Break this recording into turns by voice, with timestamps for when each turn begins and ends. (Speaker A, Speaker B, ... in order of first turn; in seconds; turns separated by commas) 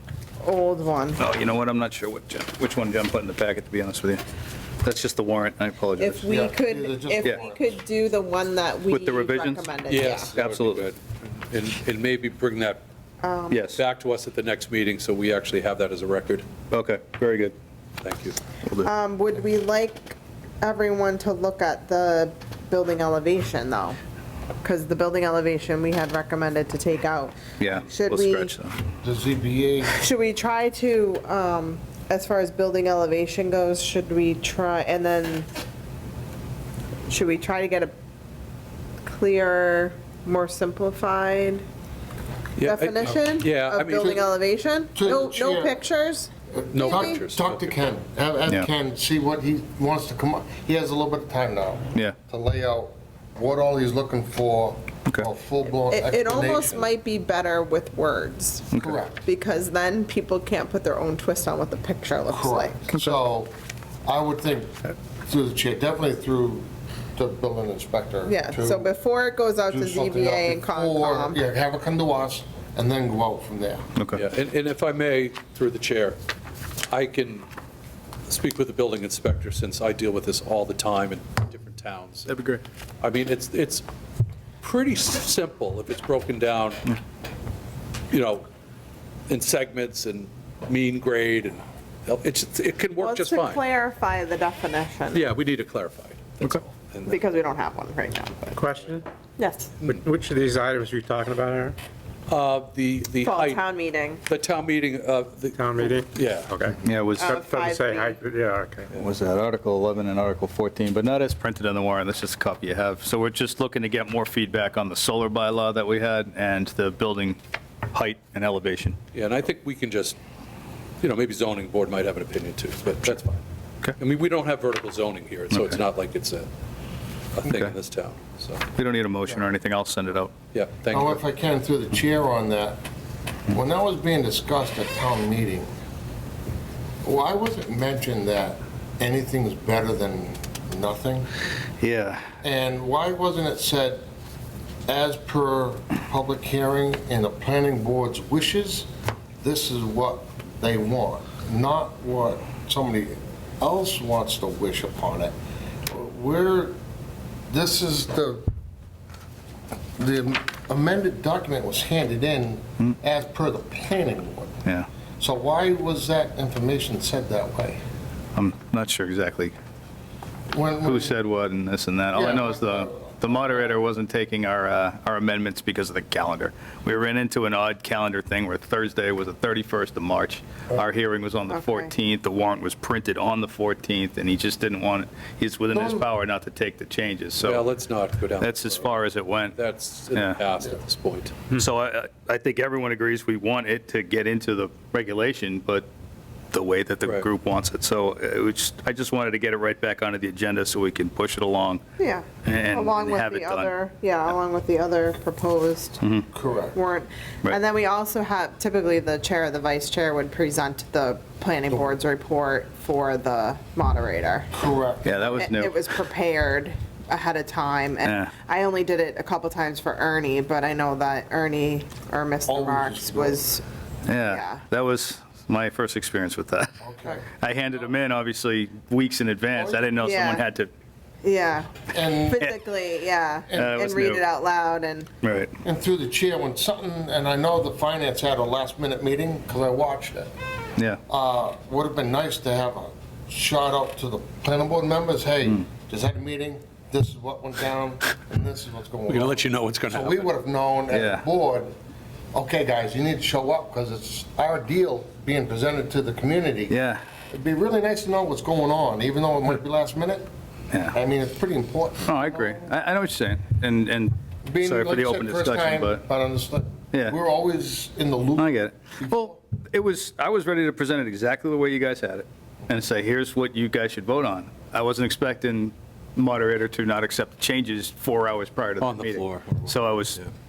Speaker A: 0.4-1.2, Speaker B: 1.2-4.2, Speaker B: 4.8-6.2, Speaker A: 6.0-10.3, Speaker C: 6.3-7.7, Speaker B: 8.9-10.9, Speaker D: 9.9-12.8, Speaker A: 13.2-13.7, Speaker B: 13.5-13.8, Speaker D: 13.7-16.5, Speaker B: 16.7-17.6, Speaker D: 18.0-18.4, Speaker B: 18.6-18.9, Speaker A: 18.8-24.0, Speaker A: 24.6-28.5, Speaker B: 27.6-28.8, Speaker C: 29.0-29.9, Speaker A: 29.9-35.5, Speaker A: 37.1-37.9, Speaker A: 39.0-41.6, Speaker D: 42.6-44.2, Speaker A: 42.6-47.2, Speaker C: 44.0-44.2, Speaker C: 45.0-45.8, Speaker C: 46.5-56.9, Speaker D: 46.7-47.7, Speaker A: 55.9-62.8, Speaker B: 58.7-59.0, Speaker C: 58.8-59.2, Speaker C: 62.3-63.5, Speaker B: 62.9-63.2, Speaker C: 64.0-68.9, Speaker A: 68.3-71.4, Speaker C: 69.7-73.9, Speaker B: 74.0-74.2, Speaker D: 74.1-76.2, Speaker D: 76.9-77.5, Speaker D: 78.3-82.3, Speaker B: 82.3-82.6, Speaker D: 83.0-83.8, Speaker D: 84.6-86.9, Speaker D: 88.1-88.5, Speaker D: 89.3-93.6, Speaker A: 93.0-95.3, Speaker D: 95.1-97.2, Speaker A: 97.1-98.5, Speaker E: 98.5-99.0, Speaker A: 99.4-99.7, Speaker E: 99.8-101.8, Speaker D: 102.3-103.6, Speaker A: 103.2-104.2, Speaker D: 104.3-106.7, Speaker E: 105.5-109.0, Speaker B: 106.8-107.4, Speaker A: 107.2-108.2, Speaker B: 109.0-117.4, Speaker B: 117.9-119.0, Speaker D: 119.1-120.2, Speaker D: 121.0-123.4, Speaker D: 124.0-126.5, Speaker B: 125.5-125.8, Speaker D: 127.3-128.7, Speaker B: 128.8-130.3, Speaker D: 130.5-131.2, Speaker C: 130.9-132.8, Speaker C: 133.5-135.7, Speaker C: 137.0-141.3, Speaker B: 141.8-142.3, Speaker C: 142.4-144.1, Speaker C: 144.9-148.9, Speaker C: 149.4-155.3, Speaker C: 155.9-156.8, Speaker C: 157.5-158.5, Speaker C: 160.0-164.6, Speaker C: 165.2-167.8, Speaker B: 168.3-169.6, Speaker C: 170.5-171.2, Speaker B: 170.8-187.7, Speaker C: 172.1-173.8, Speaker A: 181.5-181.9, Speaker C: 185.7-186.1, Speaker D: 187.4-189.0, Speaker B: 188.4-189.6, Speaker D: 189.5-191.5, Speaker B: 190.1-190.4, Speaker B: 191.5-195.9, Speaker B: 196.5-201.8, Speaker A: 202.0-206.0, Speaker B: 202.4-203.7, Speaker B: 206.0-206.3, Speaker C: 206.3-206.8, Speaker A: 206.7-214.5, Speaker C: 214.6-215.2, Speaker B: 215.0-215.8, Speaker A: 215.2-223.7, Speaker B: 218.1-218.3, Speaker C: 222.5-223.4, Speaker B: 224.1-230.7, Speaker A: 224.2-224.6, Speaker C: 226.8-227.3, Speaker C: 229.5-229.9, Speaker A: 230.0-230.5, Speaker A: 231.2-235.1, Speaker C: 231.9-232.4, Speaker C: 233.5-233.8, Speaker B: 233.6-234.2, Speaker B: 235.2-235.5, Speaker C: 235.6-240.3, Speaker C: 241.1-251.7, Speaker D: 249.1-250.3, Speaker B: 250.9-251.2, Speaker C: 252.3-256.8, Speaker B: 256.7-257.0, Speaker C: 257.3-260.3, Speaker C: 260.9-262.7, Speaker B: 262.1-266.0, Speaker C: 264.5-269.4, Speaker B: 268.4-280.2, Speaker D: 278.8-280.3